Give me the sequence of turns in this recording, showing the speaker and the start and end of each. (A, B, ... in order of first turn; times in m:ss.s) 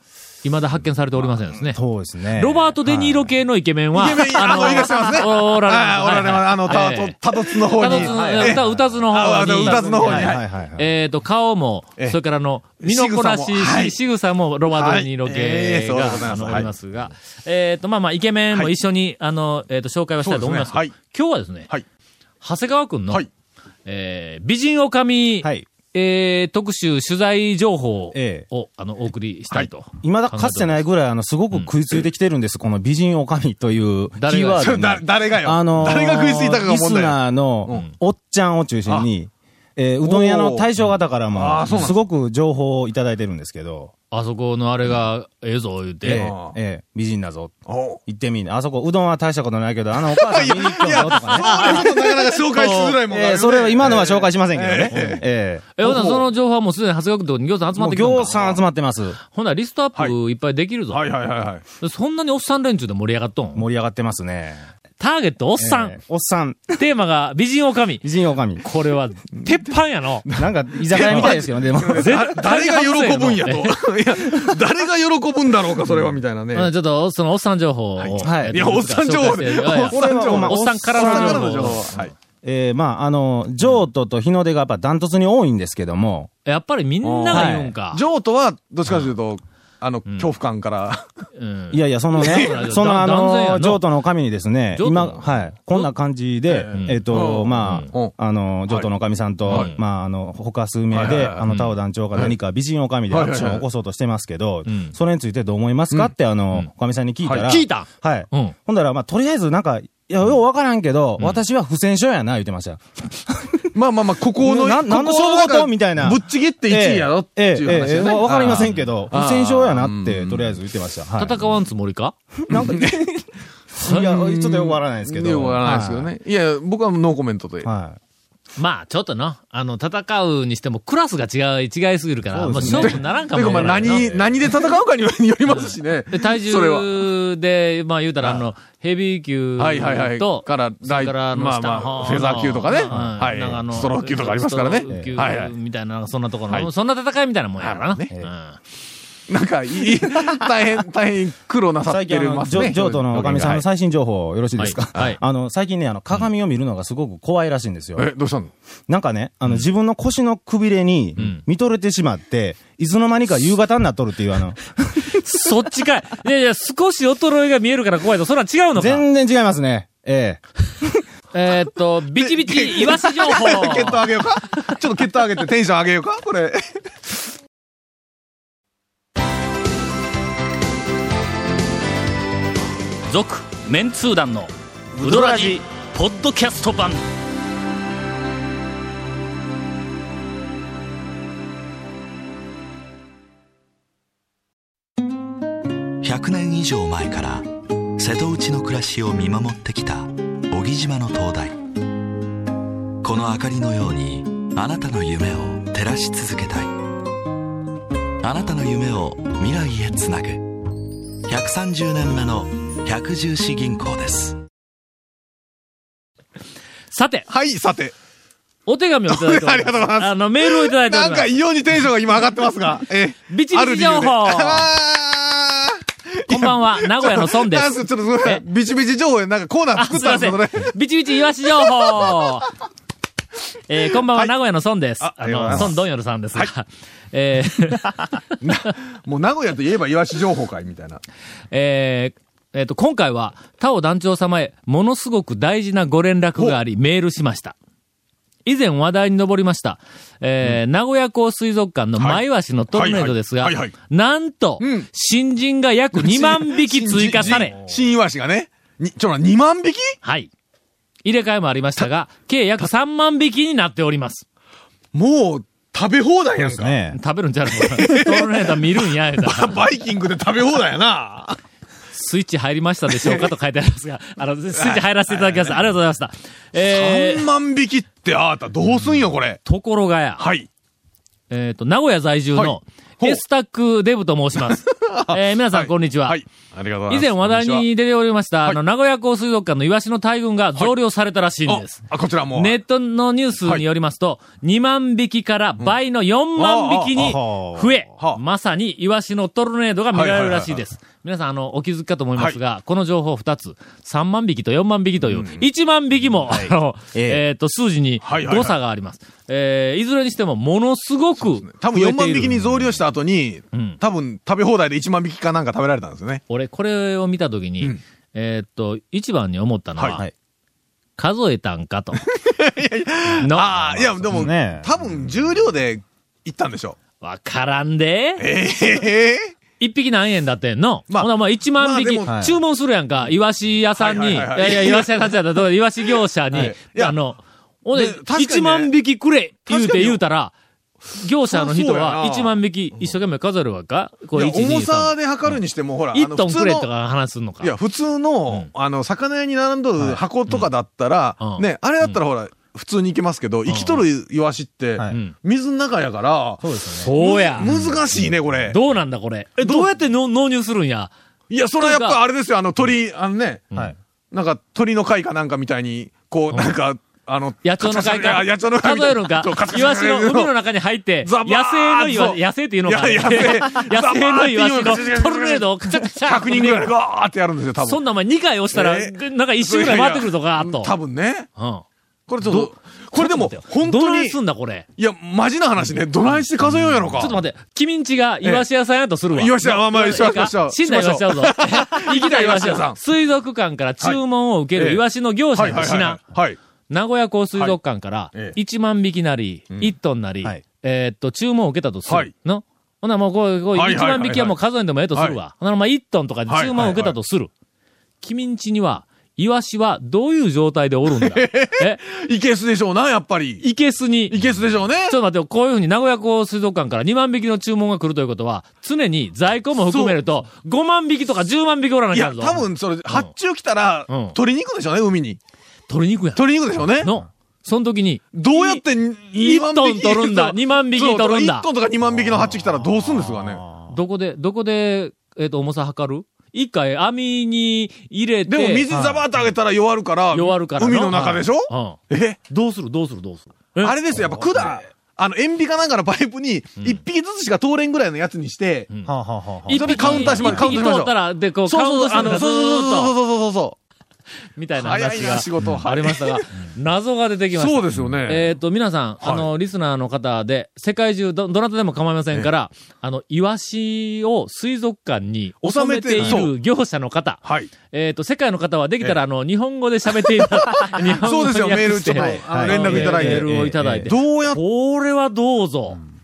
0:00.4-0:01.8 A
0:01.6-0:03.3 B
0:02.3-0:07.2 A
0:03.9-0:10.4 C
0:07.7-0:21.7 A
0:07.8-0:08.9 B
0:09.6-0:10.9 B
0:12.8-0:14.0 C
0:14.7-0:16.7 C
0:20.2-0:20.9 C
0:22.4-0:23.2 A
0:23.8-0:30.8 A
0:25.4-0:25.7 B
0:28.1-0:28.5 B
0:30.0-0:43.9 B
0:34.2-0:34.7 A
0:34.6-0:37.8 C
0:40.0-0:40.7 C
0:41.3-0:42.0 C
0:44.1-0:46.3 A
0:46.0-0:55.7 B
0:46.1-0:46.6 C
0:47.7-0:48.0 C
0:50.0-0:55.2 C
0:51.2-0:51.8 A
0:55.8-0:58.6 A
0:55.8-0:56.2 C
0:57.7-0:59.2 B
0:59.2-1:01.1 A
1:00.9-1:01.6 C
1:01.8-1:03.6 A
1:03.5-1:04.6 B
1:05.0-1:06.0 A
1:05.6-1:06.8 B
1:06.8-1:10.3 A
1:08.0-1:08.6 B
1:10.2-1:16.7 C
1:10.3-1:12.3 B
1:10.9-1:11.4 A
1:12.0-1:13.8 A
1:16.5-1:22.0 A
1:18.0-1:22.1 C
1:18.2-1:18.6 B
1:19.7-1:21.9 B
1:22.4-1:26.3 B
1:26.4-1:28.0 A
1:27.0-1:31.0 C
1:27.3-1:27.7 B
1:31.4-1:33.8 A
1:31.7-1:53.7 B
1:32.2-1:32.6 C
1:34.7-1:35.8 A
1:36.5-1:38.1 C
1:36.7-1:37.9 A
1:39.5-1:39.7 C
1:39.5-1:39.8 A
1:40.9-1:41.4 C
1:41.4-1:41.7 A
1:43.1-1:43.6 C
1:44.7-1:44.9 A
1:47.2-1:47.6 C
1:47.4-1:48.5 A
1:53.7-2:00.6 C
1:54.4-2:01.4 B
1:57.7-1:58.9 A
2:01.2-2:02.1 A
2:02.5-2:03.2 B
2:02.5-2:03.0 C
2:03.7-2:06.1 B
2:03.8-2:07.7 C
2:07.6-2:08.0 B
2:08.6-2:14.5 A
2:12.3-2:14.1 B
2:12.7-2:17.1 C
2:15.5-2:28.6 A
2:18.2-2:18.5 C
2:19.6-2:25.5 C
2:22.9-2:23.4 B
2:24.9-2:25.2 B
2:27.6-2:28.1 C
2:29.3-2:33.6 C
2:31.8-2:38.1 B
2:34.6-2:35.2 A
2:38.0-2:38.5 C
2:38.9-2:45.2 B
2:45.1-2:49.0 A
2:48.7-2:50.9 B
2:51.3-2:54.1 A
2:52.2-2:56.6 C
3:03.1-3:04.5 A
3:03.1-3:04.5 D
3:05.0-3:07.0 D
3:05.0-3:05.6 B
3:05.3-3:06.8 A
3:16.0-3:21.6 E
3:23.0-3:26.8 E
3:28.2-3:30.6 E
3:31.2-3:34.4 E
3:36.9-3:37.3 A
3:37.3-3:37.9 C
3:38.6-3:41.3 A
3:39.1-3:50.7 C
3:43.3-3:44.7 A
3:46.3-3:48.4 A
3:49.7-3:52.5 A
3:53.7-3:58.1 A
3:54.1-3:54.3 C
3:55.0-3:56.5 C
3:55.5-3:55.7 B
3:58.4-4:01.0 C
4:01.5-4:07.5 A
4:08.4-4:17.6 A
4:12.0-4:13.7 C
4:14.6-4:14.9 C
4:15.9-4:20.0 C
4:20.0-4:20.3 A
4:21.0-4:24.2 A
4:24.9-4:26.7 C
4:26.4-4:27.0 B
4:26.9-4:29.6 A
4:27.5-4:31.4 C
4:31.9-4:37.3 A
4:32.9-4:33.3 C
4:34.5-4:35.6 C
4:36.6-4:39.4 C
4:39.4-4:40.3 A
4:40.2-4:40.5 C
4:41.3-4:46.2 A
4:42.3-4:43.2 C
4:44.6-4:47.7 C
4:46.9-5:12.5 A
4:51.4-4:52.6 C
4:56.4-4:57.2 C
4:56.9-4:57.7 B
4:59.9-5:00.6 C
5:05.0-5:05.4 C
5:06.3-5:07.2 B
5:08.0-5:08.6 C
5:11.2-5:16.2 C
5:13.5-5:13.8 A
5:16.3-5:20.0 A
5:21.0-5:22.0 A
5:22.1-5:26.8 C
5:23.2-5:24.1 A
5:24.1-5:24.7 B
5:27.0-5:28.3 A
5:28.2-5:29.3 C
5:29.6-5:40.3 A
5:30.9-5:32.1 C
5:32.0-5:32.4 B
5:33.8-5:35.2 C
5:36.3-5:37.0 C
5:37.7-5:38.7 C
5:39.5-5:40.0 C
5:40.9-5:45.4 A
5:41.2-5:42.9 C
5:44.1-5:46.7 C
5:45.9-5:47.5 A
5:47.4-5:58.6 C
5:51.2-5:52.0 A
5:53.5-5:53.8 A
5:54.9-5:55.1 A
5:56.4-5:57.7 B
5:56.8-6:00.9 A
5:59.4-5:59.7 C
6:01.3-6:03.5 C
6:01.6-6:02.0 A
6:04.1-6:10.3 C
6:07.4-6:16.7 A
6:11.0-6:17.8 C
6:17.6-6:20.8 A
6:18.5-6:21.3 C
6:21.4-6:21.6 A
6:22.1-6:24.2 C
6:22.2-6:24.6 A
6:24.8-6:27.2 C
6:26.9-6:36.0 A
6:28.2-6:28.5 C
6:29.1-6:32.8 C
6:34.5-6:36.4 C
6:36.7-6:47.3 A
6:43.5-6:44.4 C
6:46.3-6:47.0 C
6:48.0-6:51.8 A
6:50.9-6:55.0 C
6:53.4-6:54.2 A
6:54.8-7:03.1 A
6:59.7-7:00.0 C
7:01.9-7:05.2 C
7:03.9-7:04.2 A
7:05.7-7:08.6 A
7:06.1-7:06.9 C
7:08.1-7:13.4 C
7:09.2-7:11.4 A
7:13.2-7:13.7 B
7:13.7-7:18.7 A
7:18.3-7:22.2 C
7:18.7-7:19.0 B
7:20.1-7:23.7 A
7:23.6-7:28.7 C
7:24.0-7:24.6 B
7:28.8-7:30.5 B
7:29.4-7:32.9 A
7:29.5-7:33.6 C
7:34.4-7:55.8 A
7:34.6-7:36.2 C
7:37.3-7:38.4 C
7:39.0-7:39.3 C
7:45.4-7:46.4 C
7:46.0-7:46.3 B
7:47.2-7:47.5 C
7:49.9-7:54.4 C
7:51.9-7:53.9 B